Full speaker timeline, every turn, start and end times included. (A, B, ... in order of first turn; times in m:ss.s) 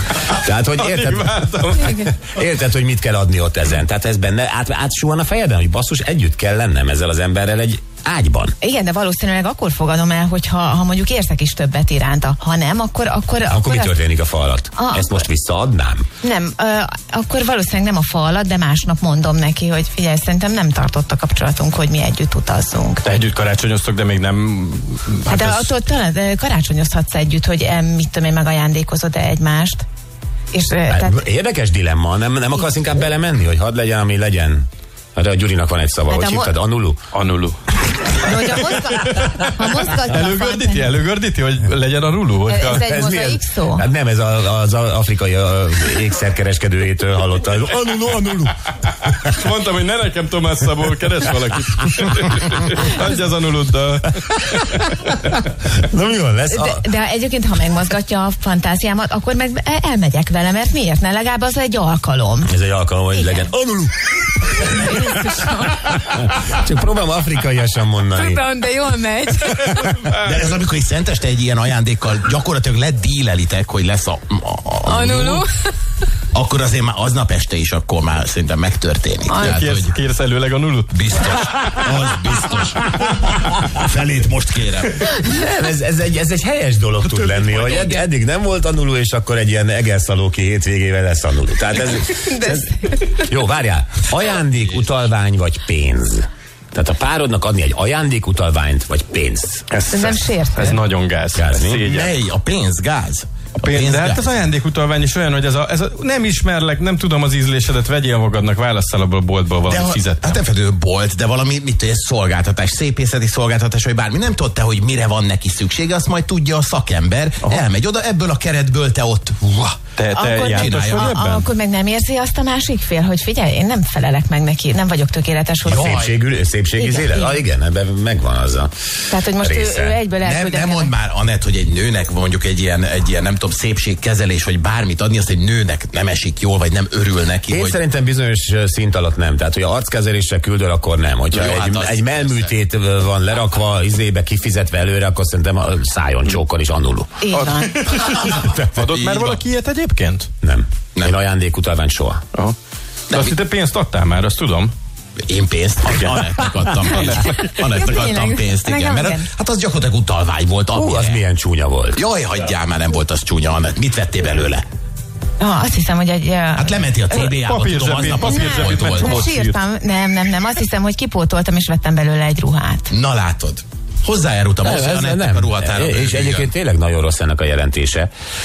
0:00.2-0:08.6 A
0:00.8-0:02.1 B
0:08.6-0:13.9 C
0:13.5-0:16.1 A
0:14.8-0:15.2 C
0:16.2-0:23.1 C
0:23.0-0:25.7 B
0:25.2-0:29.8 C
0:30.5-0:31.2 C
0:30.9-0:37.0 A
0:36.1-0:36.5 C
0:37.1-0:42.8 B
0:38.1-0:40.9 C
0:42.5-0:43.9 C
0:42.8-0:49.2 A
0:49.2-0:55.2 B
0:54.5-0:56.8 A
0:56.5-1:02.5 C
1:02.4-1:08.4 A
1:03.1-1:03.4 C
1:04.6-1:06.1 C
1:08.1-1:10.0 C
1:10.1-1:15.4 D
1:14.9-1:15.5 C
1:16.3-1:20.0 D
1:19.3-1:19.6 C
1:19.3-1:21.0 B
1:20.9-1:25.2 D
1:25.1-1:39.6 A
1:27.6-1:27.9 D
1:32.1-1:33.2 C
1:39.7-1:42.1 B
1:39.9-1:40.8 C
1:41.4-1:41.8 A
1:41.8-1:44.4 D
1:43.6-1:50.4 B
1:49.7-1:59.8 D
2:00.0-2:01.5 B
2:00.1-2:06.0 C
2:00.4-2:01.3 D
2:05.6-2:06.1 D
2:05.6-2:08.7 A
2:06.8-2:07.4 C
2:09.1-2:10.9 C
2:09.3-2:10.0 A
2:10.2-2:17.8 D
2:17.5-2:27.2 A
2:21.3-2:22.5 D
2:27.2-2:27.8 C
2:27.3-2:30.3 B
2:28.7-2:29.4 D
2:30.4-2:32.2 A
2:33.1-2:34.7 B
2:35.2-2:41.2 D
2:35.9-2:36.3 B
2:37.0-2:39.3 C
2:40.7-2:42.0 A
2:42.0-2:44.6 D
2:45.4-2:47.4 C
2:46.6-2:49.2 D
2:47.3-2:49.6 B
2:48.2-2:52.9 C
2:52.9-2:56.5 D
2:54.6-2:58.1 A